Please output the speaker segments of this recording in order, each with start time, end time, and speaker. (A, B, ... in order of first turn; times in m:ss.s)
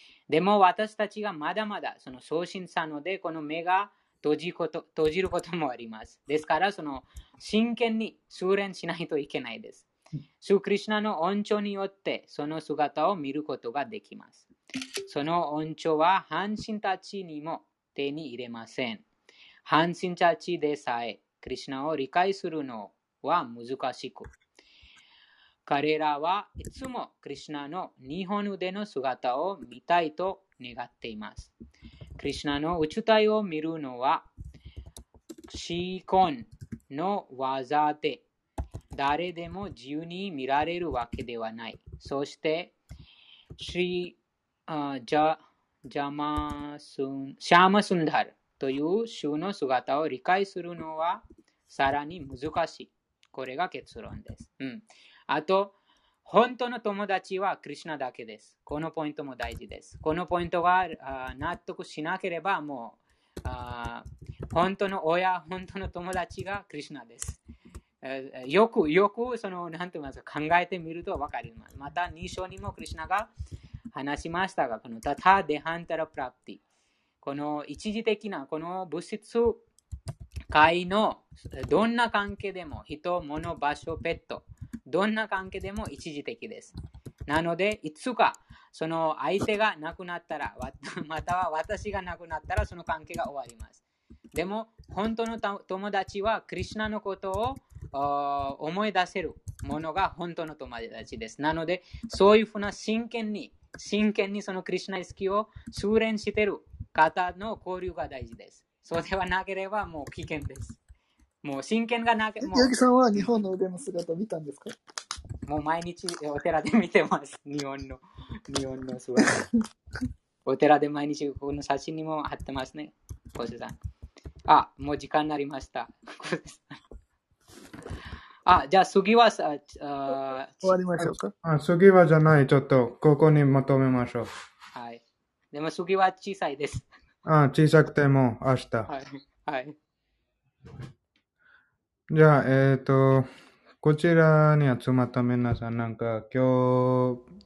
0:00.3-0:09.8 A
0:10.4-0:14.4 A
0:15.0-0:19.0 A
0:19.7-0:24.3 A
0:25.6-0:31.5 A
0:32.2-0:34.3 A
0:35.5-0:38.2 A
0:39.0-0:42.7 A
0:43.6-0:55.7 A
0:56.3-1:07.4 A
1:08.0-1:13.3 A
1:13.9-1:16.6 A
1:17.2-1:19.6 A
1:20.5-1:26.7 A
1:27.3-1:33.8 A
1:34.3-1:50.8 A
1:51.4-1:53.3 A
1:52.4-1:54.7 B
1:55.4-1:59.4 A
1:59.2-1:59.5 B
2:00.4-2:03.8 A
2:04.5-2:06.8 A
2:08.4-2:10.6 A
2:10.6-2:11.3 B
2:11.0-2:14.3 C
2:14.7-2:15.0 A
2:15.5-2:16.8 A
2:17.3-2:18.9 C
2:18.9-2:19.8 A
2:22.1-2:23.3 C
2:23.8-2:27.2 C